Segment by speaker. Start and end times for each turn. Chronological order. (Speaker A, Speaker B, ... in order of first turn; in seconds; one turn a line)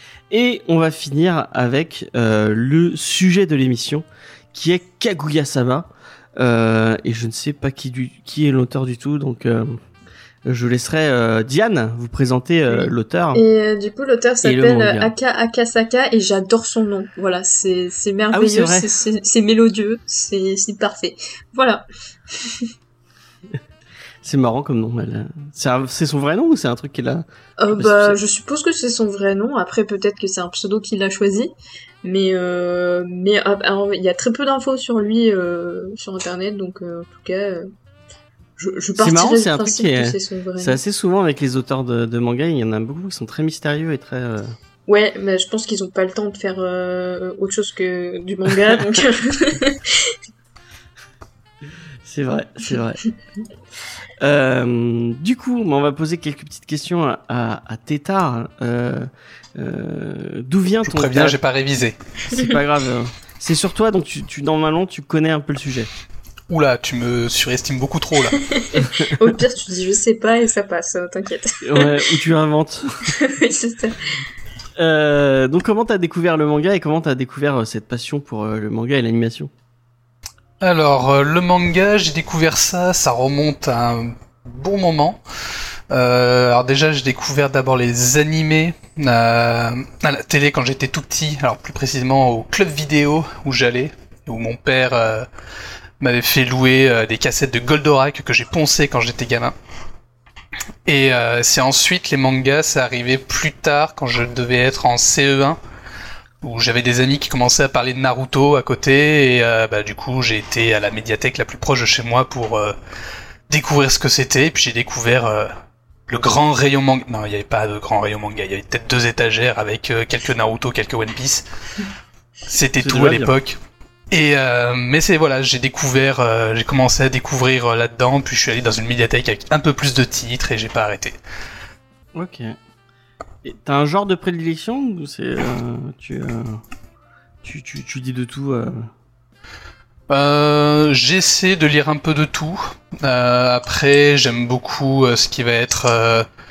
Speaker A: 0.3-9.8
Speaker A: 10.4-13.4
Speaker B: 12.7-22.6
Speaker A: 14.4-15.1
Speaker A: 18.3-18.9
Speaker A: 24.2-28.2
Speaker B: 27.6-37.7
Speaker B: 38.6-40.8
Speaker A: 39.0-44.5
Speaker B: 44.9-50.1
Speaker A: 52.0-53.0
Speaker A: 54.2-61.4
Speaker C: 60.8-62.0
Speaker A: 62.3-65.9
Speaker C: 66.5-68.4
Speaker B: 68.5-71.9
Speaker A: 68.8-69.0
Speaker A: 71.6-73.1
Speaker B: 73.2-74.2
Speaker A: 74.8-79.5
Speaker C: 80.6-85.2
Speaker C: 85.9-95.3
Speaker C: 96.0-99.5
Speaker C: 100.8-105.6
Speaker C: 106.4-112.8
Speaker C: 113.5-115.5
Speaker C: 116.1-121.4
Speaker C: 122.5-123.6
Speaker A: 122.8-123.3
Speaker C: 124.1-131.2
Speaker A: 132.1-132.6
Speaker A: 133.4-136.6
Speaker A: 137.4-138.9
Speaker C: 140.1-146.3